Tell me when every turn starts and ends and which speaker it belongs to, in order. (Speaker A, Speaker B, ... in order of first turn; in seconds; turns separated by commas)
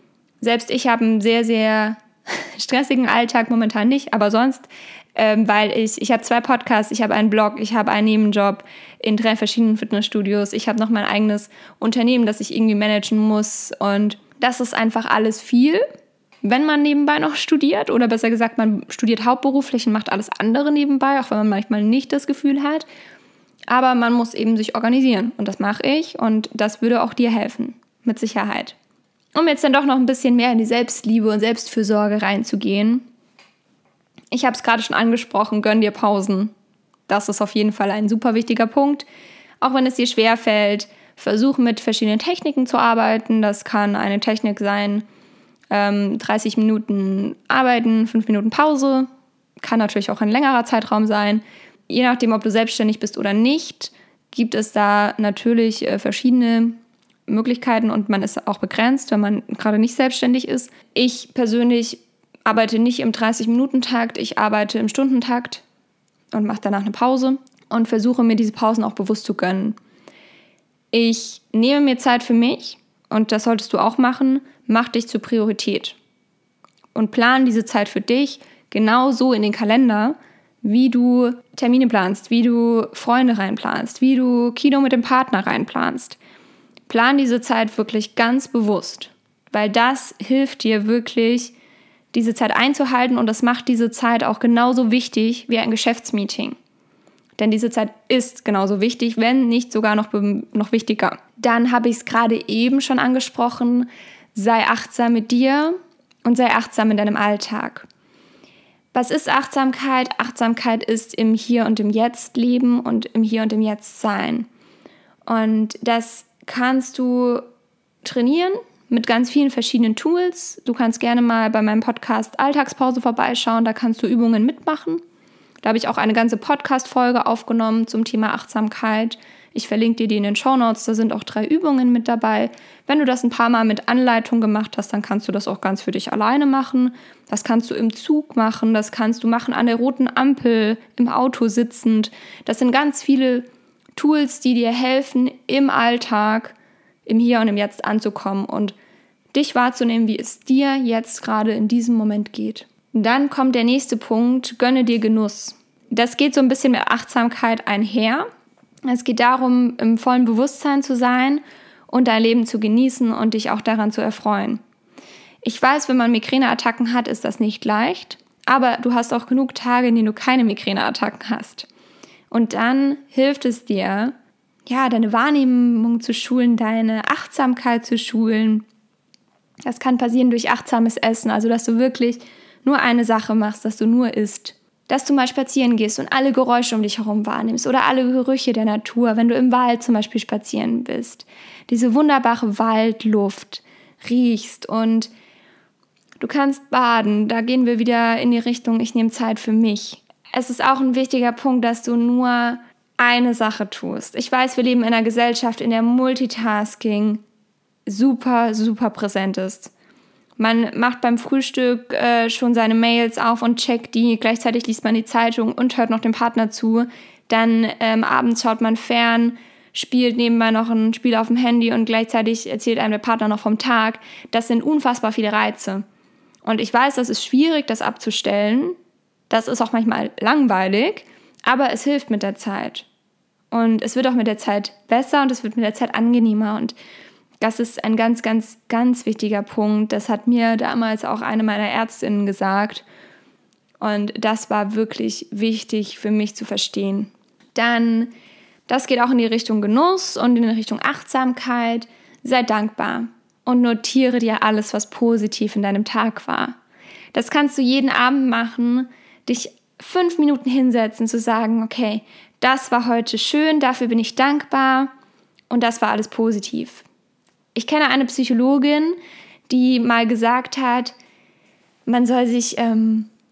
Speaker A: 0.4-15.8, Speaker A: 16.4-22.9, Speaker A: 23.7-28.8, Speaker A: 29.4-33.1, Speaker A: 34.3-36.5, Speaker A: 37.1-39.1, Speaker A: 39.6-45.0, Speaker A: 45.7-49.1, Speaker A: 49.6-65.6, Speaker A: 66.3-69.8, Speaker A: 70.9-76.0, Speaker A: 77.0-86.2, Speaker A: 86.9-91.5, Speaker A: 92.1-96.6, Speaker A: 97.4-107.9, Speaker A: 108.9-114.5, Speaker A: 115.3-117.5, Speaker A: 118.0-125.0, Speaker A: 125.6-148.8, Speaker A: 149.3-158.3, Speaker A: 158.9-164.6, Speaker A: 165.4-171.7, Speaker A: 172.3-174.2, Speaker A: 174.7-178.7, Speaker A: 179.7-195.1, Speaker A: 196.2-207.2, Speaker A: 207.9-209.7, Speaker A: 210.4-225.8, Speaker A: 226.4-228.8, Speaker A: 229.3-232.9, Speaker A: 233.5-236.8, Speaker A: 237.4-242.8, Speaker A: 243.8-248.1, Speaker A: 248.7-256.6, Speaker A: 257.1-264.9, Speaker A: 265.5-266.9, Speaker A: 267.6-269.0, Speaker A: 269.5-270.9, Speaker A: 271.9-273.1